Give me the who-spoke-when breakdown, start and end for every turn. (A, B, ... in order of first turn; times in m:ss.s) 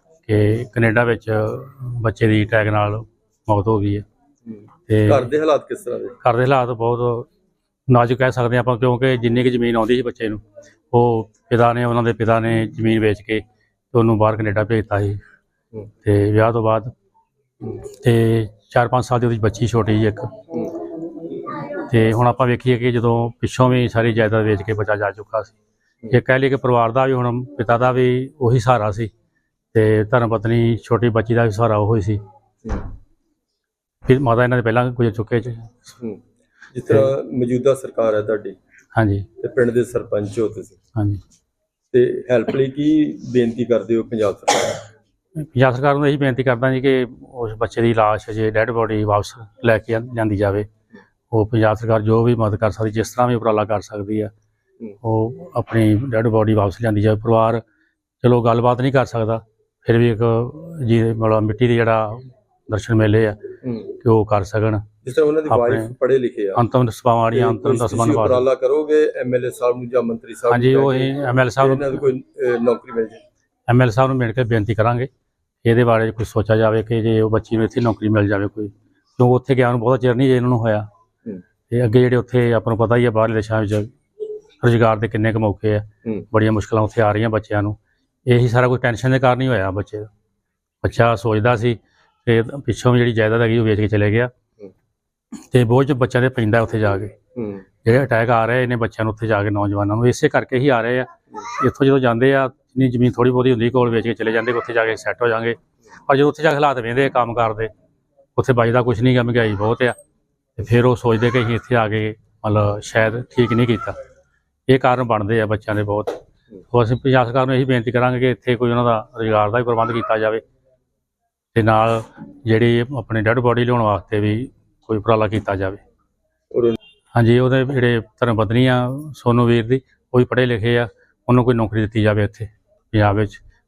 0:00.3-0:04.0 A
0:04.4-0:06.2 B
0:04.9-0:05.3 A
0:06.2-0:07.3 A
0:07.9-0:15.2 A
0:16.0-0:16.9 A
0:18.0-0:20.3 A
0:21.7-0:25.6 A
0:26.1-0:29.1 A
0:29.7-0:32.2 A
0:34.1-0:35.9 A
0:36.7-0:38.6 B
0:39.0-0:39.3 A
0:39.4-0:40.8 B
0:41.0-0:41.2 A
0:41.9-0:44.8 B
0:45.4-0:50.7 A
0:51.3-0:54.3 A
0:55.0-0:57.6 A
0:58.2-1:03.4 A
1:03.6-1:03.9 B
1:04.0-1:05.9 A
1:05.0-1:06.6 B
1:06.6-1:08.4 A
1:07.3-1:13.2 B
1:10.5-1:12.0 A
1:13.7-1:15.1 A
1:15.6-1:20.9 A
1:21.7-1:23.9 A
1:24.6-1:30.1 A
1:30.8-1:34.3 A
1:35.5-1:37.2 A
1:37.4-1:37.6 B
1:37.8-1:47.7 A
1:48.4-1:50.0 A
1:50.6-1:54.0 A
1:54.7-1:56.2 A
1:56.7-2:00.4 A
2:01.5-2:05.8 A
2:06.5-2:06.8 B
2:07.1-2:13.4 A